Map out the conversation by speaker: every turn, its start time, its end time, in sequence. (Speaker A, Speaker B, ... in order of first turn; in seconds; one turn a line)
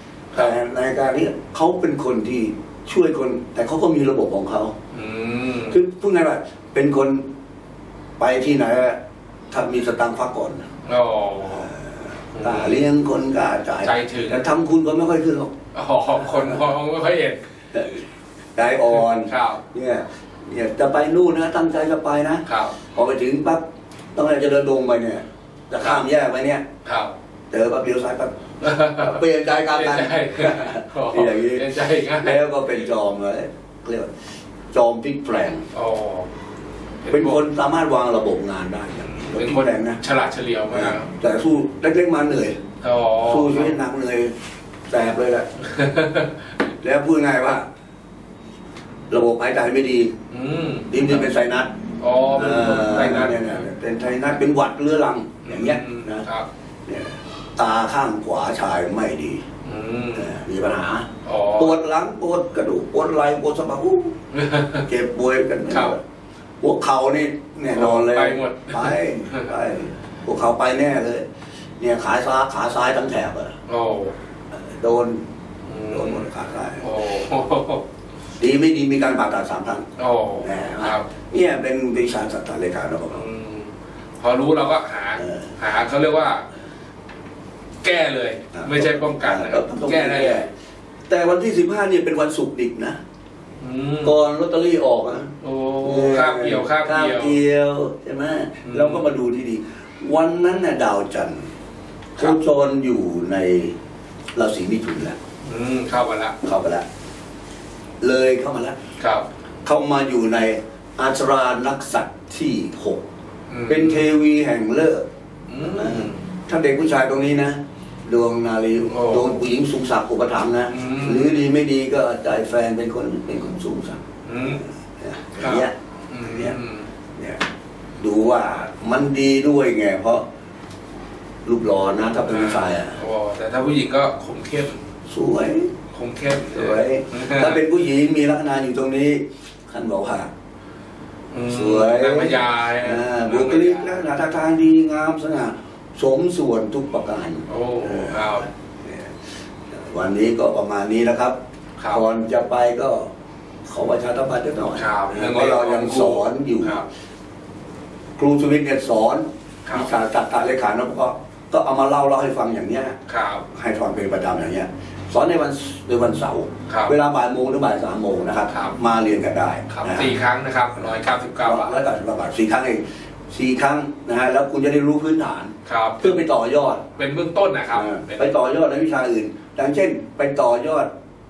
Speaker A: 0.3-4.7
Speaker B: 4.9-5.8
Speaker A: 5.7-7.2
Speaker A: 8.2-9.0
Speaker A: 9.5-10.7
Speaker B: 10.9-11.7
Speaker A: 11.5-15.5
Speaker B: 12.3-12.9
Speaker B: 13.8-14.5
Speaker B: 15.7-17.4
Speaker A: 16.3-16.6
Speaker A: 17.7-18.0
Speaker A: 18.6-23.6
Speaker B: 19.0-19.6
Speaker B: 22.5-22.8
Speaker A: 24.1-26.6
Speaker B: 26.9-27.1
Speaker A: 27.5-31.7
Speaker B: 28.6-32.9
Speaker A: 32.2-34.1
Speaker A: 34.7-35.7
Speaker B: 35.7-36.3
Speaker B: 37.0-37.4
Speaker A: 37.1-40.0
Speaker B: 39.2-41.1
Speaker A: 40.7-42.6
Speaker B: 42.8-43.8
Speaker A: 43.2-44.3
Speaker A: 44.9-45.5
Speaker B: 45.6-46.4
Speaker A: 46.8-47.6
Speaker A: 49.1-50.1
Speaker B: 50.3-51.1
Speaker A: 50.9-51.7
Speaker B: 52.0-53.6
Speaker A: 52.3-56.3
Speaker B: 55.5-56.5
Speaker A: 56.9-59.4
Speaker B: 59.6-60.4
Speaker A: 60.1-64.2
Speaker B: 61.2-61.8
Speaker B: 64.3-64.8
Speaker A: 64.8-66.0
Speaker B: 65.7-66.0
Speaker A: 66.6-71.3
Speaker B: 67.7-69.5
Speaker A: 71.8-73.6
Speaker B: 73.7-74.1
Speaker A: 74.5-75.2
Speaker B: 75.7-76.3
Speaker A: 75.9-76.9
Speaker B: 76.8-77.8
Speaker A: 78.4-79.9
Speaker B: 80.0-81.1
Speaker A: 80.4-83.3
Speaker B: 83.1-86.5
Speaker A: 85.2-85.5
Speaker B: 87.8-90.5
Speaker A: 88.5-90.5
Speaker A: 91.1-93.0
Speaker B: 93.6-94.2
Speaker A: 94.0-95.3
Speaker B: 95.4-97.4
Speaker A: 95.8-101.5
Speaker B: 98.7-99.1
Speaker A: 102.2-103.8
Speaker A: 104.3-105.2
Speaker B: 105.4-106.4
Speaker A: 106.4-106.9
Speaker A: 108.0-108.8
Speaker B: 109.0-109.3
Speaker A: 109.6-113.0
Speaker B: 113.5-114.1
Speaker A: 113.7-115.0
Speaker B: 115.5-116.2
Speaker A: 115.6-126.5
Speaker B: 118.9-119.4
Speaker B: 120.7-121.5
Speaker B: 124.3-124.6
Speaker B: 125.4-126.9
Speaker A: 127.2-127.4
Speaker A: 128.0-130.2
Speaker A: 131.4-133.0
Speaker B: 132.3-134.8
Speaker A: 135.1-135.8
Speaker B: 135.9-137.6
Speaker A: 136.5-140.3
Speaker B: 141.3-144.0
Speaker A: 141.4-149.1
Speaker B: 147.5-148.5
Speaker A: 149.9-151.4
Speaker A: 151.9-153.1
Speaker A: 153.7-156.8
Speaker B: 154.8-156.8
Speaker A: 158.2-163.0
Speaker B: 163.1-163.4
Speaker A: 163.5-170.1
Speaker B: 166.7-167.0
Speaker B: 169.7-171.8
Speaker A: 171.4-176.9
Speaker B: 175.7-176.2
Speaker B: 177.0-178.3
Speaker A: 177.7-180.9